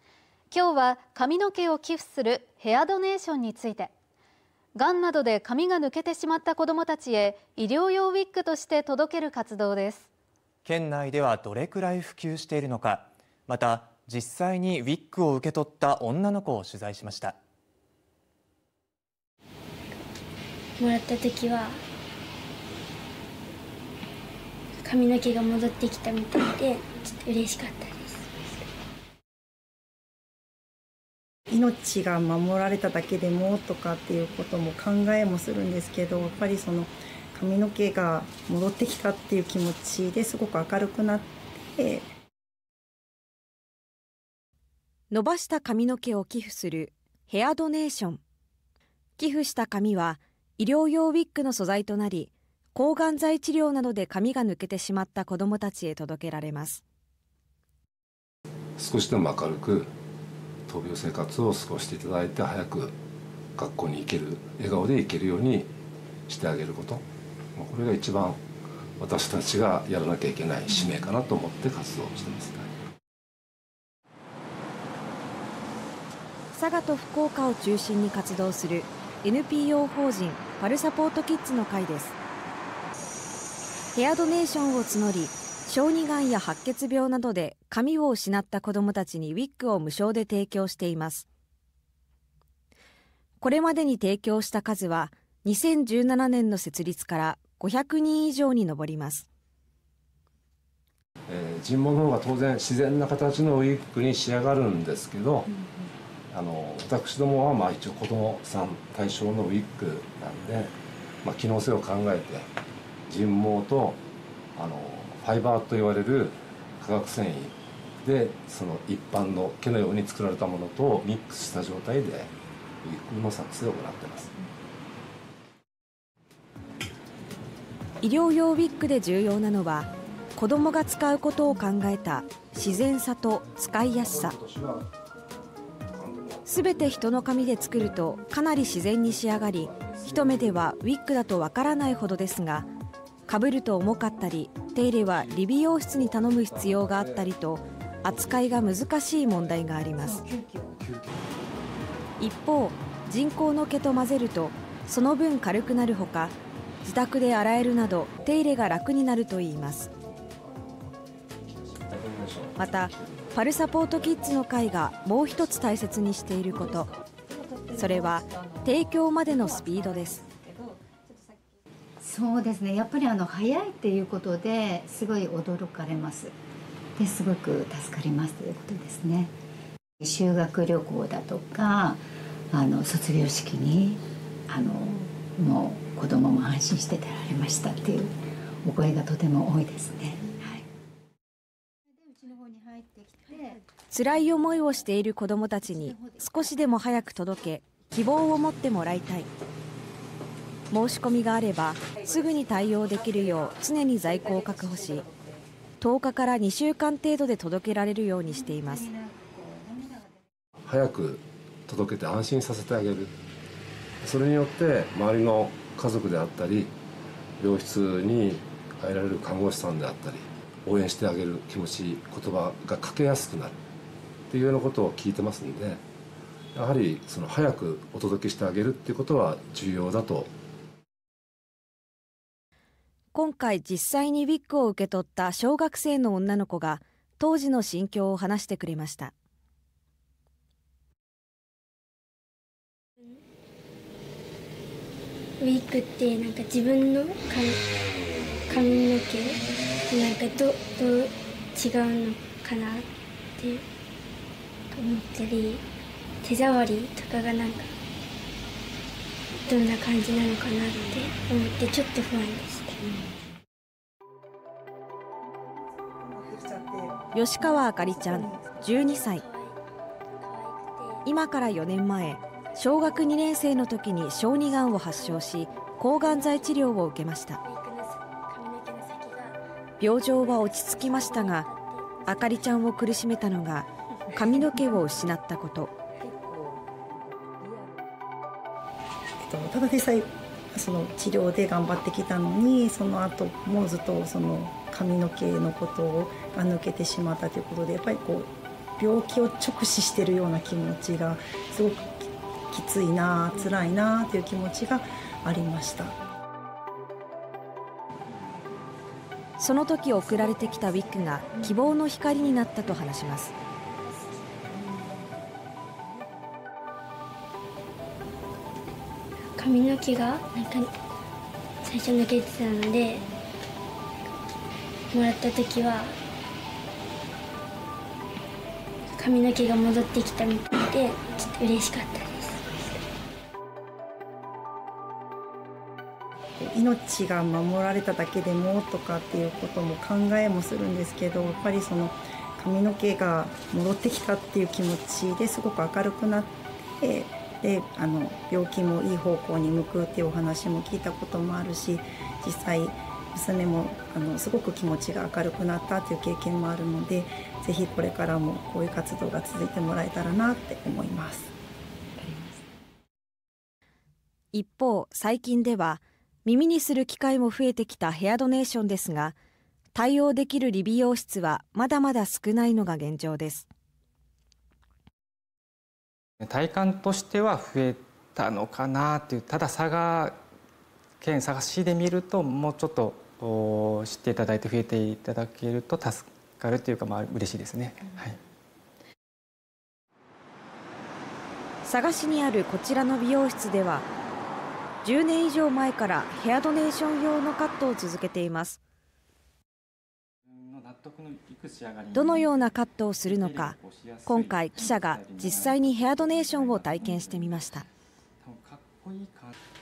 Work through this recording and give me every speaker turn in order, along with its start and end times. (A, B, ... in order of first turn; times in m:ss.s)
0:00.5-0:03.9 A
0:04.8-0:10.1 A
0:10.6-0:17.4 B
0:20.8-0:21.8 C
0:24.8-0:28.5 C
0:31.5-0:42.1 D
0:45.1-0:48.2 E
0:49.2-0:56.8 E
0:58.8-0:59.9 F
1:00.7-1:03.0 F
1:03.6-1:05.7 F
1:06.3-1:07.0 F
1:07.6-1:08.4 F
1:09.0-1:12.7 F
1:16.6-1:22.2 E
1:24.0-1:31.3 E
1:33.4-1:39.3 E
1:41.3-1:45.5 F
1:46.3-1:52.5 F
1:53.1-1:54.0 F
1:54.6-2:02.3 F
2:02.8-2:04.3 F
2:08.0-2:14.4 E
2:13.9-2:14.9 F
2:15.9-2:17.9 F
2:16.5-2:22.7 E
2:18.9-2:20.6 F
2:23.3-2:30.2 E
2:26.0-2:27.3 F
2:28.1-2:28.8 F
2:30.3-2:30.7 G
2:32.2-2:39.9 E
2:41.7-2:43.2 F
2:42.6-2:46.9 E
2:47.7-2:50.2 E
2:52.0-2:56.4 G
2:57.0-2:59.3 G
3:00.0-3:10.6 G
3:12.4-3:13.6 G
3:13.9-3:19.3 E
3:20.7-3:25.1 E
3:25.8-3:28.9 E
3:28.5-3:30.1 G
3:30.6-3:33.1 F
3:34.0-3:36.7 F
3:37.4-3:43.6 F
3:44.3-3:45.8 F
3:46.6-3:50.3 F
3:53.1-3:59.1 E
4:05.4-4:07.6 C
4:08.5-4:12.9 C
4:13.4-4:13.6 C
4:14.7-4:15.6 C
4:16.2-4:17.7 C
4:19.4-4:22.8 C
4:25.8-4:27.0 D
4:27.1-4:29.2 E
4:27.6-4:28.6 D
4:28.6-4:29.6 C
4:30.2-4:31.0 C
4:31.0-4:37.4 E
4:34.9-4:35.2 C
4:36.0-4:36.6 C
4:37.4-4:39.4 C
4:39.8-4:41.5 E
4:40.0-4:42.2 C
4:42.1-4:45.7 E
4:49.2-5:06.0 D
5:09.4-5:13.3 E
5:19.4-5:20.7 C
5:21.6-5:23.1 C
5:24.9-5:26.0 C
5:29.0-5:32.6 C
5:36.4-6:01.3 D
6:04.3-6:09.2 E
6:09.7-6:13.5 E
6:16.2-6:20.2 H
6:21.0-6:28.2 H
6:31.6-6:33.9 E
6:34.8-6:38.6 E
6:40.3-6:42.3 H
6:41.9-6:47.7 E
6:43.0-6:47.4 H
6:48.2-6:49.3 H